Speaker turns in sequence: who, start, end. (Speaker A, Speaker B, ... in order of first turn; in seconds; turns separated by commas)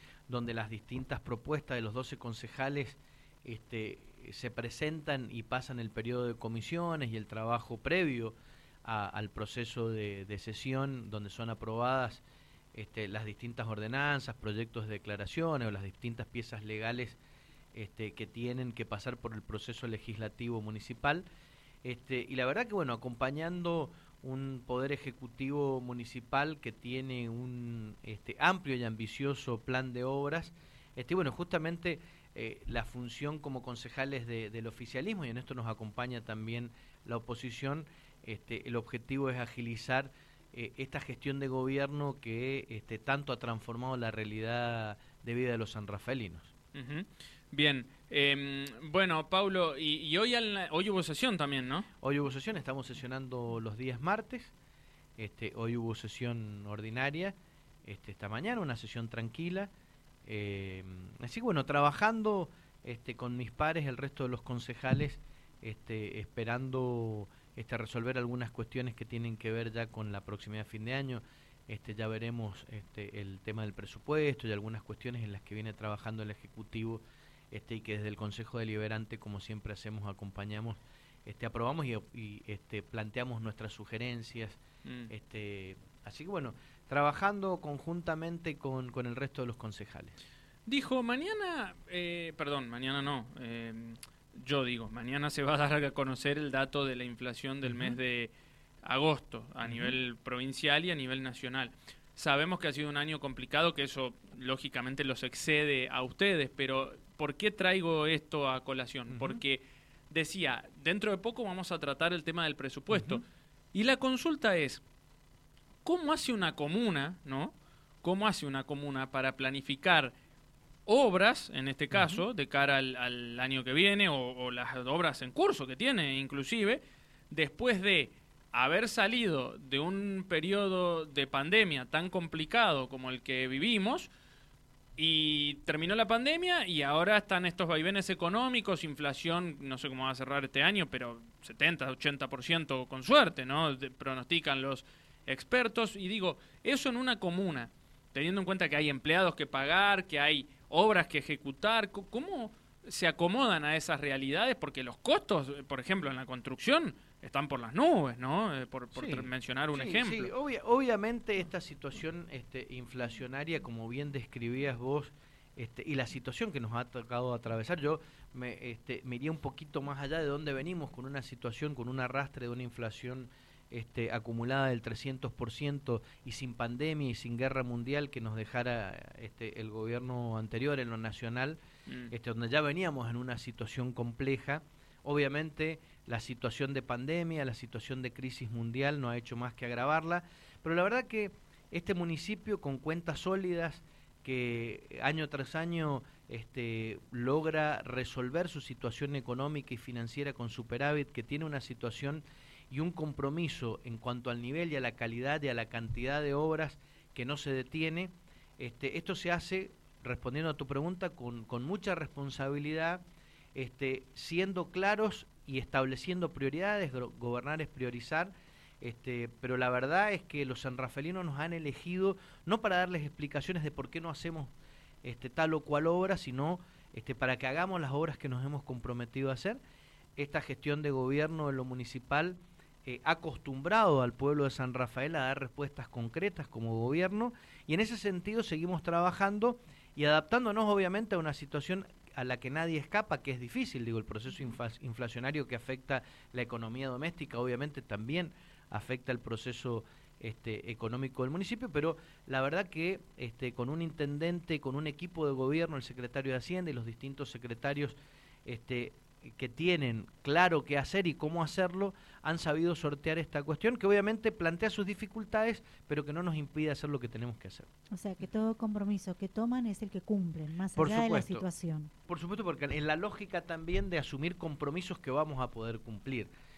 Speaker A: 0.3-12.2, Speaker A: 12.7-17.2, Speaker A: 17.7-21.3, Speaker A: 21.8-46.5, Speaker B: 46.7-51.9, Speaker A: 52.0-54.5, Speaker A: 55.2-59.7, Speaker A: 60.2-90.2, Speaker B: 84.8-85.1, Speaker B: 90.7-98.3, Speaker A: 97.7-98.0, Speaker B: 98.8-114.8, Speaker A: 99.7-100.0, Speaker A: 109.1-109.4, Speaker A: 112.9-113.2, Speaker B: 115.8-120.1, Speaker B: 120.9-134.1, Speaker A: 121.9-122.2, Speaker B: 135.0-160.3, Speaker A: 158.9-181.6, Speaker B: 181.9-182.1, Speaker A: 182.1-213.0, Speaker A: 213.6-224.5, Speaker A: 225.0-229.6, Speaker A: 230.2-267.7, Speaker C: 267.9-271.9, Speaker A: 270.8-271.5, Speaker A: 272.1-276.3